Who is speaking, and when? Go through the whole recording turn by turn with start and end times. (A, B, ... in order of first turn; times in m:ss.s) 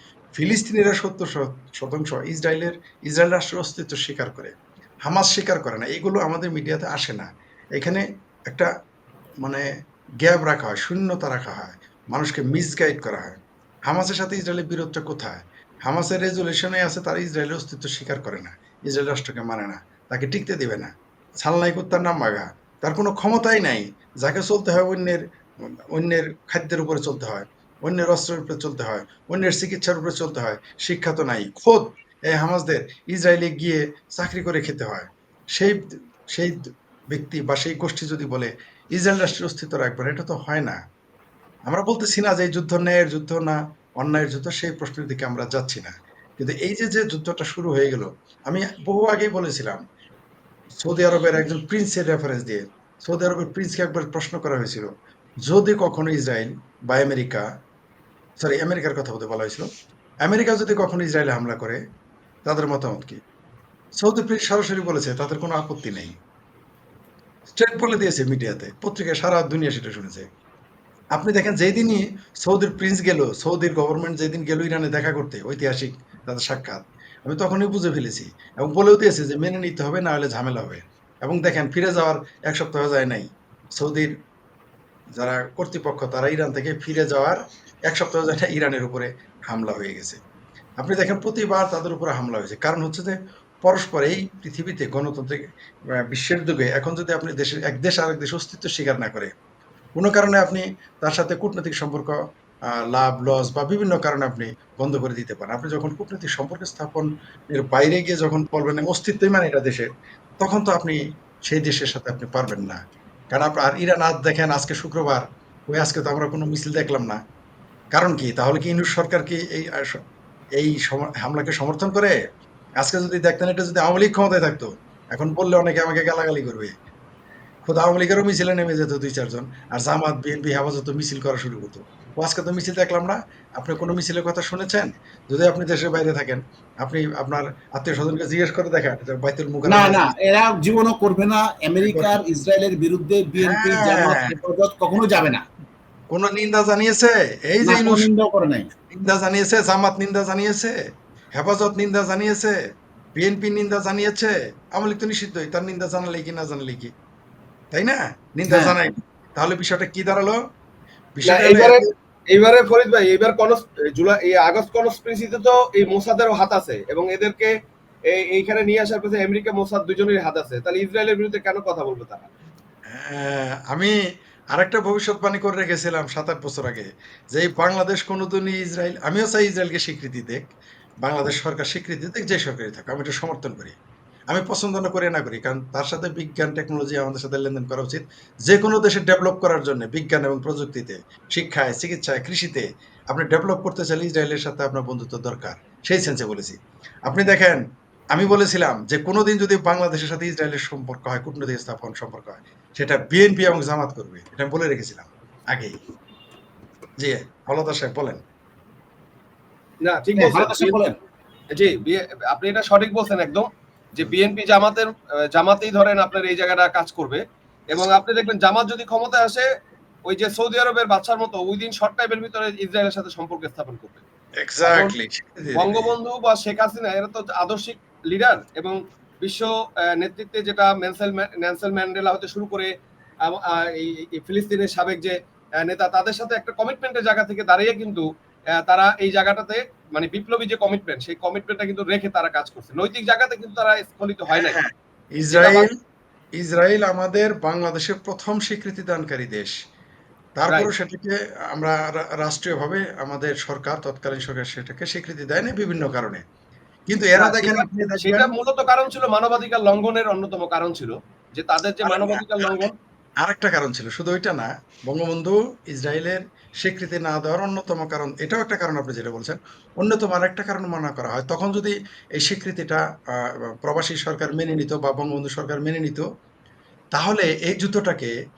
0:00.4-0:08.7 A
0:10.2-0:20.9 A
0:21.4-0:25.2 A
0:25.9-0:35.8 A
0:37.1-0:40.8 A
0:41.7-0:49.8 A
0:50.8-0:54.9 A
0:55.4-0:57.4 A
0:58.4-0:59.6 A
1:00.2-1:01.8 A
1:02.4-1:03.2 A
1:04.0-1:06.1 A
1:07.5-1:10.2 A
1:11.1-1:24.1 A
1:25.2-1:30.2 A
1:30.8-1:35.4 A
1:36.1-1:39.3 A
1:40.0-1:42.2 A
1:42.7-1:49.9 A
1:50.4-1:52.8 A
1:53.3-1:57.2 A
1:57.9-2:00.0 A
2:00.6-2:02.2 A
2:02.8-2:06.7 A
2:07.6-2:20.1 A
2:19.7-2:25.4 B
2:21.9-2:22.2 A
2:23.4-2:24.3 A
2:26.1-2:28.1 A
2:27.6-2:28.7 B
2:28.9-2:30.8 A
2:31.3-2:32.6 A
2:33.2-2:36.9 A
2:37.7-2:40.4 A
2:38.5-2:38.7 B
2:41.1-2:41.8 A
2:41.3-2:41.8 C
2:42.3-2:47.5 C
2:48.1-2:52.3 C
2:52.9-2:53.9 A
2:54.5-3:00.5 A
3:01.0-3:03.8 A
3:04.3-3:16.6 A
3:17.1-3:25.7 A
3:27.0-3:28.2 A
3:29.8-3:30.8 C
3:30.2-3:30.9 B
3:31.5-3:39.4 C
3:40.0-3:44.0 C
3:44.4-3:45.9 A
3:44.6-3:44.9 C
3:45.6-3:52.7 C
3:53.2-3:58.0 C
3:58.6-4:04.6 C
4:04.3-4:05.7 A
4:05.3-4:05.7 C
4:06.4-4:09.5 A
4:10.4-4:16.2 A
4:16.9-4:18.3 A
4:17.2-4:22.7 C
4:21.8-4:22.6 A
4:23.2-4:36.0 A
4:36.9-4:38.1 A